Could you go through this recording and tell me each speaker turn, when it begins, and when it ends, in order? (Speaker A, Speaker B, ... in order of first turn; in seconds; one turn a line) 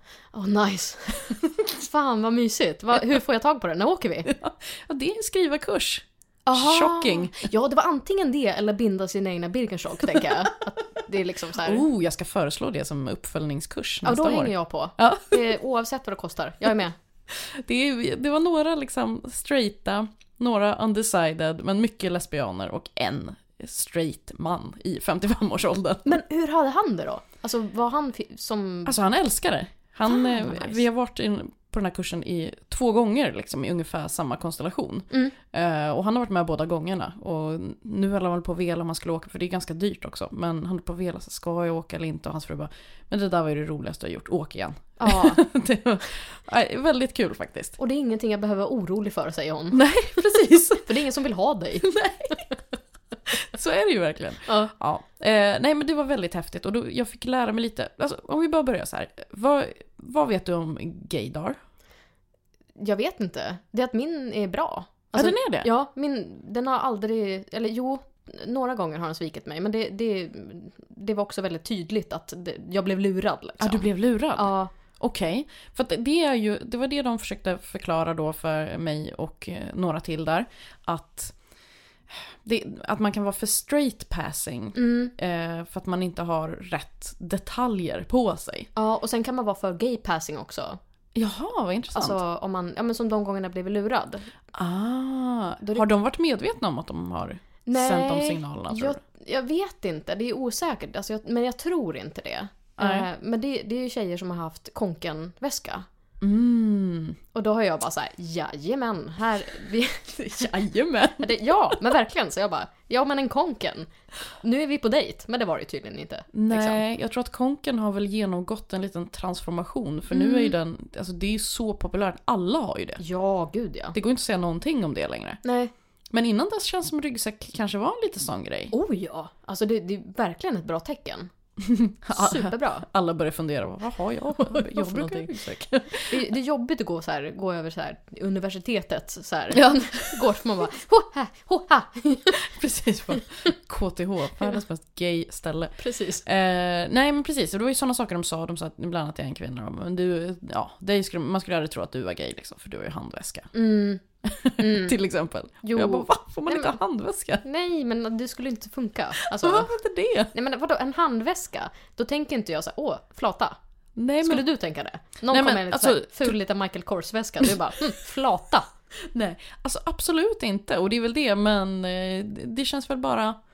Speaker A: 0.3-4.3
Speaker B: 4.3-7.4
Speaker A: 6.5-11.9
Speaker B: 11.6-15.6
Speaker A: 14.0-17.0
Speaker B: 17.3-26.2
Speaker A: 26.1-28.9
Speaker B: 28.9-47.8
Speaker A: 30.1-30.8
Speaker A: 45.0-45.4
Speaker A: 47.8-50.0
Speaker B: 49.7-50.9
Speaker A: 50.8-51.9
Speaker B: 51.8-52.5
Speaker B: 53.3-61.6
Speaker A: 54.5-54.7
Speaker A: 62.8-74.7
Speaker B: 65.2-65.7
Speaker B: 73.6-81.5
Speaker B: 82.1-88.7
Speaker A: 84.7-85.1
Speaker A: 88.8-90.8
Speaker B: 91.2-92.2
Speaker A: 91.9-94.3
Speaker B: 94.5-99.0
Speaker A: 97.7-105.8
Speaker B: 102.8-103.1
Speaker B: 106.2-107.2
Speaker A: 107.3-110.6
Speaker B: 110.2-111.9
Speaker A: 111.2-116.8
Speaker B: 116.3-123.0
Speaker A: 120.1-120.6
Speaker A: 123.0-124.0
Speaker B: 123.9-125.4
Speaker A: 125.4-125.7
Speaker B: 126.1-128.7
Speaker A: 128.7-131.3
Speaker B: 131.6-136.2
Speaker A: 132.1-132.9
Speaker A: 134.4-135.4
Speaker A: 136.1-142.4
Speaker B: 139.6-140.2
Speaker B: 142.4-153.5
Speaker A: 145.8-146.2
Speaker A: 153.5-154.0
Speaker B: 154.2-157.4
Speaker A: 154.6-154.9
Speaker A: 155.6-156.8
Speaker A: 157.4-159.8
Speaker B: 159.2-160.3
Speaker A: 160.3-163.6
Speaker B: 164.0-164.5
Speaker A: 164.2-168.7
Speaker B: 165.3-166.3
Speaker B: 169.1-173.4